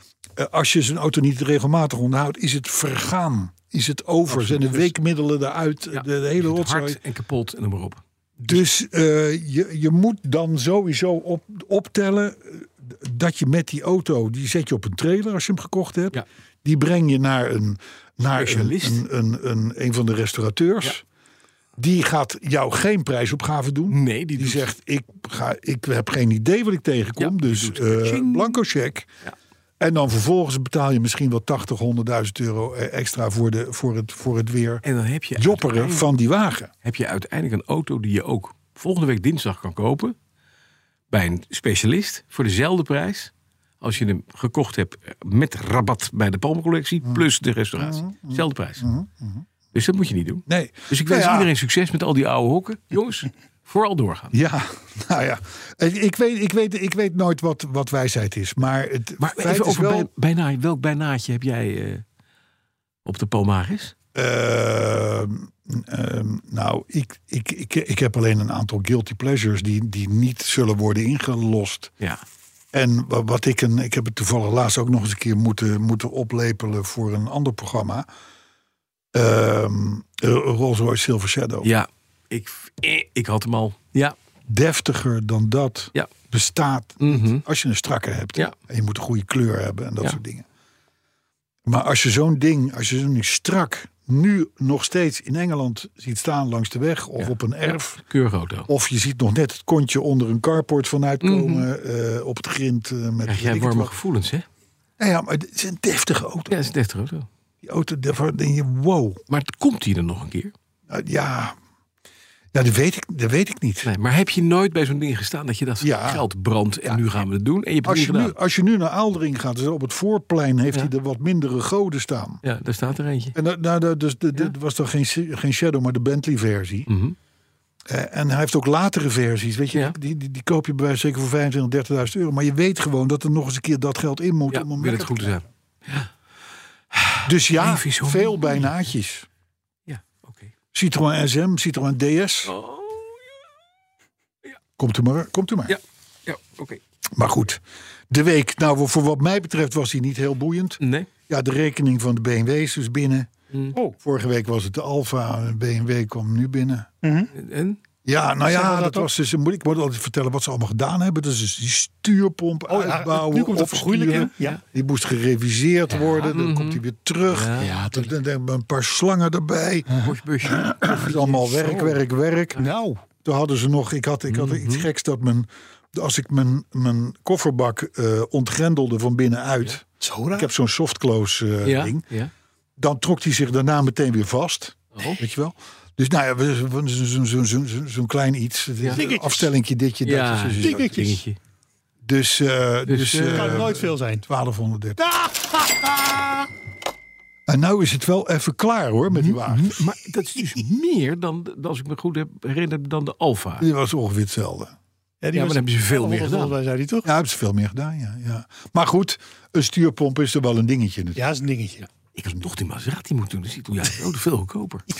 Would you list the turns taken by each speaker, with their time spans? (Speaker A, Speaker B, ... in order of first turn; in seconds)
Speaker A: 0.4-7.0, 8.4-21.0, 21.8-29.1, 29.8-34.8, 35.4-36.7, 47.8-49.4, 50.5-51.5, 54.3-60.1, 64.1-71.9, 72.7-78.1, 79.1-81.7, 84.5-90.5, 91.7-98.0, 98.7-103.9, 105.0-106.6, 107.6-109.2, 110.9-111.6, 112.5-113.9, 115.8-116.2, 117.8-122.4, 123.3-126.9, 127.9-135.4, 137.2-139.3, 140.7-142.5, 144.8-145.8, 147.1-153.3, 154.0-156.9, 158.1-172.7, 173.2-182.1, 182.8-191.0, 192.0-195.0, 197.5-199.8, 203.6-204.8, 207.0-211.2
Speaker B: 4.3-4.9, 5.9-8.6, 18.3-19.1, 23.9-24.7, 27.2-28.6, 34.8-36.1, 36.8-40.1, 41.1-48.9, 49.7-54.4, 59.2-62.0, 63.0-63.9, 81.6-84.1, 87.0-87.4, 98.0-98.7, 101.2-101.7, 103.2-104.5, 106.5-107.3, 109.3-110.5, 113.8-118.3, 122.4-123.3, 126.9-127.2, 134.5-136.1, 136.9-138.7, 139.9-140.5, 142.4-143.3, 145.7-146.8, 150.8-151.1, 157.3-157.8, 165.9-168.1, 169.9-171.3, 174.3-174.9, 181.6-182.3, 184.9-185.2, 190.0-191.4, 192.9-193.7, 199.2-203.7, 205.3-206.6, 211.8-214.9
Speaker C: 157.0-157.3, 158.4-159.1, 162.7-164.6, 171.0-172.0, 172.6-173.0, 180.0-180.5, 188.9-189.5, 190.6-191.2, 193.3-194.2, 195.0-196.5, 205.2-207.1, 211.2-211.8